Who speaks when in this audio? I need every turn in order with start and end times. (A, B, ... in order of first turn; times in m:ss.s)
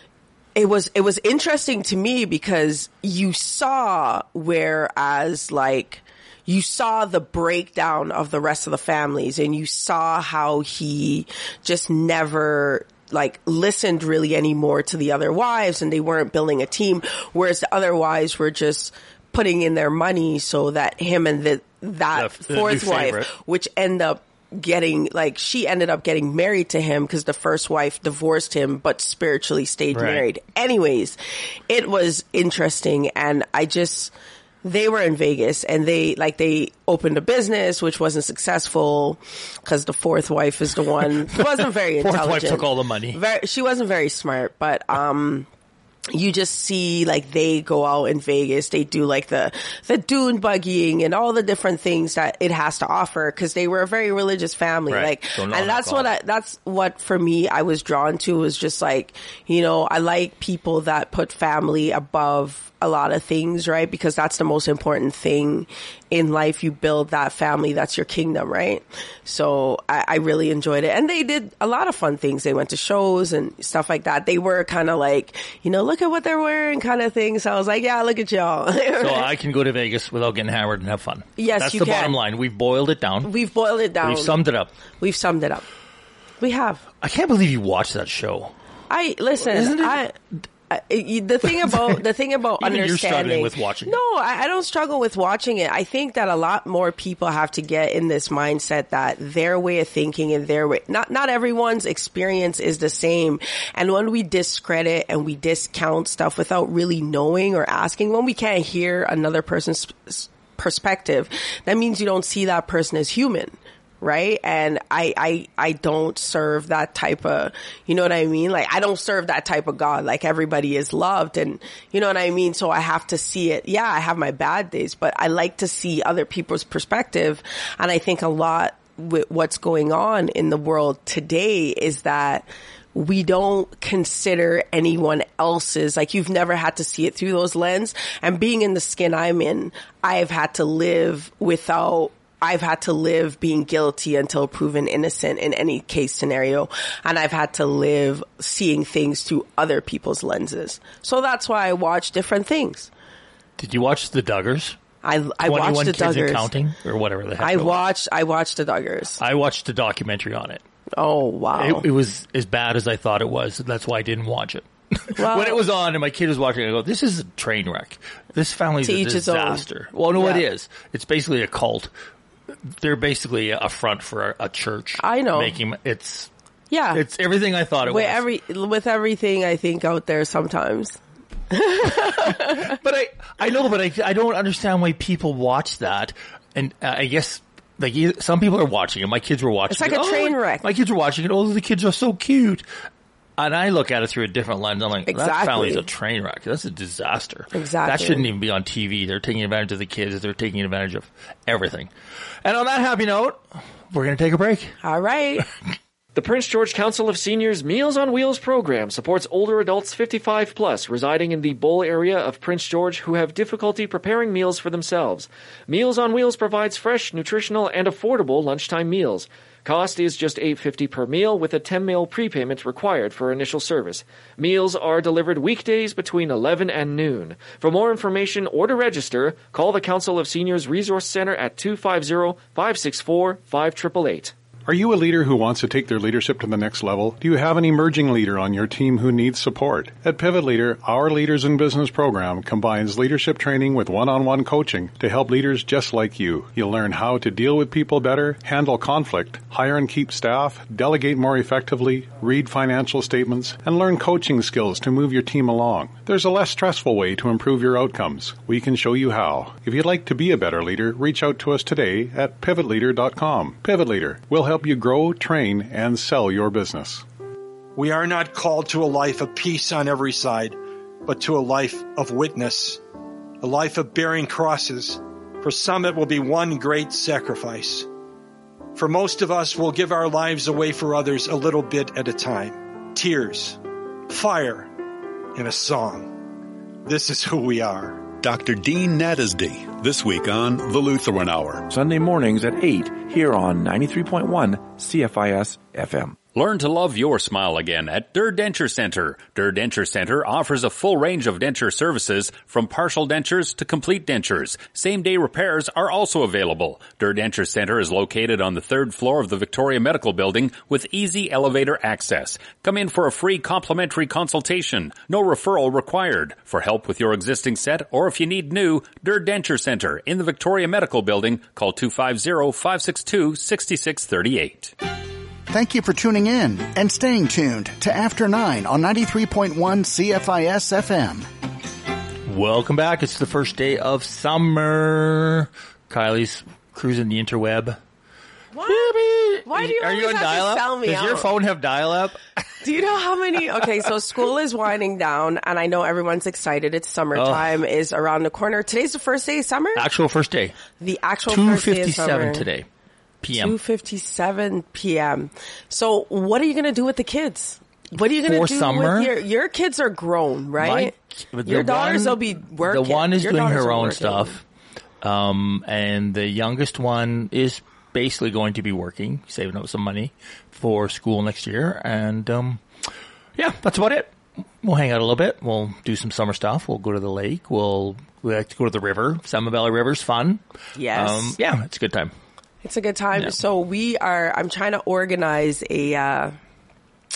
0:00.5-0:31.2 A
0:22.1-0:23.3 B
0:29.9-0:30.2 B
0:31.7-0:34.1 A
0:34.6-0:45.5 A
0:41.4-0:43.2 B
0:46.1-1:19.3 A
0:54.9-0:56.1 B
1:19.0-1:23.3 B
1:21.4-1:22.2 A
1:23.2-1:24.3 A
1:24.0-1:24.7 B
1:25.0-1:25.6 A
1:26.4-1:26.8 A
1:27.0-1:28.5 B
1:28.9-1:30.1 A
1:29.4-1:30.0 B
1:30.7-2:32.9 A
1:32.6-1:34.0 B
2:33.6-2:34.8 B
2:35.0-2:36.5 A
2:35.4-2:37.8 B
2:37.4-2:39.2 A
2:39.2-2:40.6 B
2:41.0-2:41.9 A
2:41.6-2:51.9 B
2:45.1-2:45.6 A
2:48.8-2:49.6 A
2:50.2-2:50.4 A
2:52.8-2:56.3 B
2:55.0-2:55.6 A
2:56.7-2:57.0 A
2:56.9-2:58.2 B
2:57.8-3:01.0 A
3:01.5-3:02.7 A
3:02.2-3:12.6 B
3:09.7-3:10.6 A
3:13.4-3:21.9 B
3:15.1-3:15.8 A
3:17.5-3:18.2 A
3:22.4-3:24.7 B
3:24.8-3:25.4 A
3:26.1-3:54.3 C
3:54.6-4:27.0 D
4:27.7-4:32.8 E
4:33.4-4:37.9 E
4:38.8-4:44.7 E
4:45.3-4:46.1 E
4:46.8-4:48.1 E
4:48.1-4:51.6 F
4:51.6-4:56.2 G
4:56.3-5:24.7 H
5:25.5-5:31.3 I
5:32.2-5:37.8 B
5:38.5-5:41.3 A
5:38.6-5:42.2 B
5:42.6-5:49.8 A
5:47.1-5:47.6 B
5:49.8-5:50.6 B
5:50.8-5:52.4 A
5:51.3-5:52.6 B
5:53.2-5:53.6 B
5:53.3-6:00.9 A
5:58.2-5:59.1 B
6:00.6-6:04.4 B
6:01.4-6:04.4 A
6:05.0-6:12.6 B
6:13.4-6:14.1 B
6:14.6-6:20.4 B
6:20.8-6:21.3 A
6:20.9-6:22.1 B
6:22.6-6:26.4 A